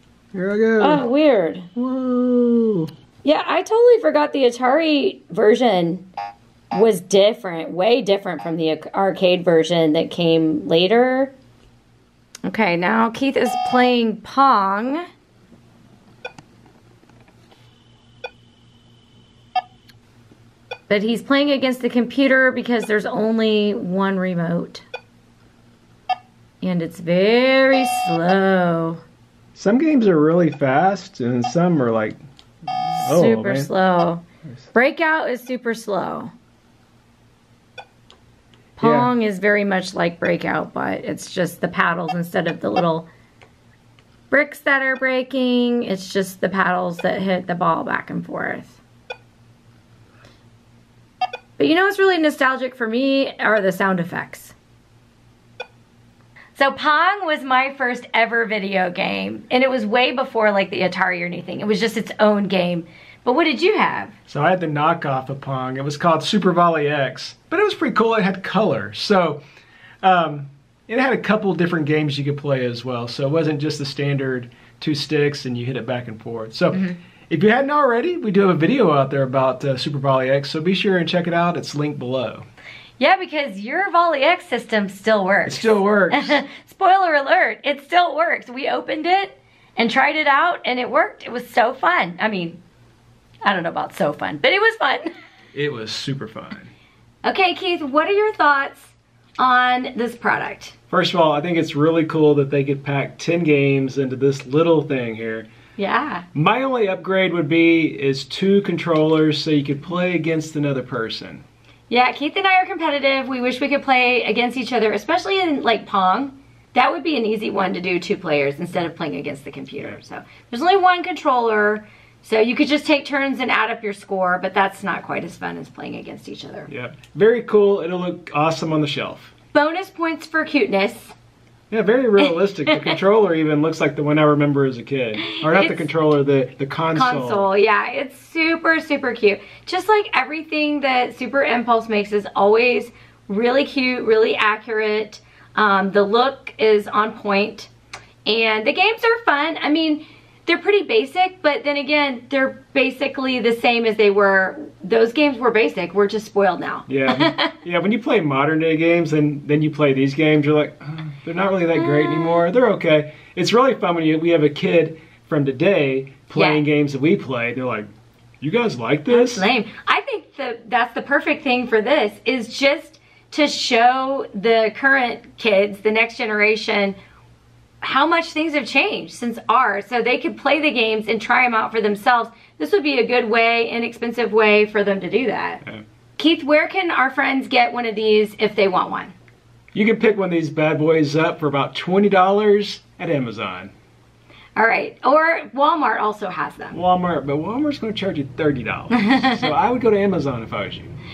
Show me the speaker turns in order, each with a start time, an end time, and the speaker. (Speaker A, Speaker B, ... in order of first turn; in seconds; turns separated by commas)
Speaker A: 0.3-1.0, Speaker B: 0.8-1.7, Speaker A: 1.8-2.9, Speaker B: 3.2-6.1, Speaker B: 6.7-11.3, Speaker B: 12.4-15.0, Speaker B: 20.9-24.8, Speaker B: 26.6-29.0, Speaker A: 29.5-32.2, Speaker A: 32.9-33.7, Speaker B: 33.0-34.2, Speaker B: 34.7-36.3, Speaker B: 38.8-43.1, Speaker A: 38.8-39.1, Speaker B: 44.3-48.8, Speaker B: 51.6-54.5, Speaker B: 56.5-64.1, Speaker A: 64.3-69.4, Speaker A: 70.0-82.5, Speaker B: 76.7-77.0, Speaker B: 83.0-92.6, Speaker A: 85.5-86.4, Speaker B: 93.4-95.1, Speaker A: 95.5-96.7, Speaker B: 97.2-100.7, Speaker A: 100.9-105.5, Speaker B: 105.8-106.2, Speaker A: 106.3-111.4, Speaker B: 111.9-126.7, Speaker A: 126.7-129.3, Speaker B: 129.5-131.1, Speaker A: 131.7-137.5, Speaker B: 132.2-133.0, Speaker B: 135.2-135.8, Speaker B: 136.9-147.7, Speaker B: 148.2-157.5, Speaker A: 156.9-167.9, Speaker B: 161.7-162.4, Speaker B: 166.3-166.6, Speaker A: 168.4-169.4, Speaker B: 169.1-176.9, Speaker B: 177.8-185.6, Speaker B: 186.2-189.1, Speaker A: 189.7-193.7, Speaker B: 194.6-196.8, Speaker A: 196.7-200.9, Speaker B: 198.9-199.5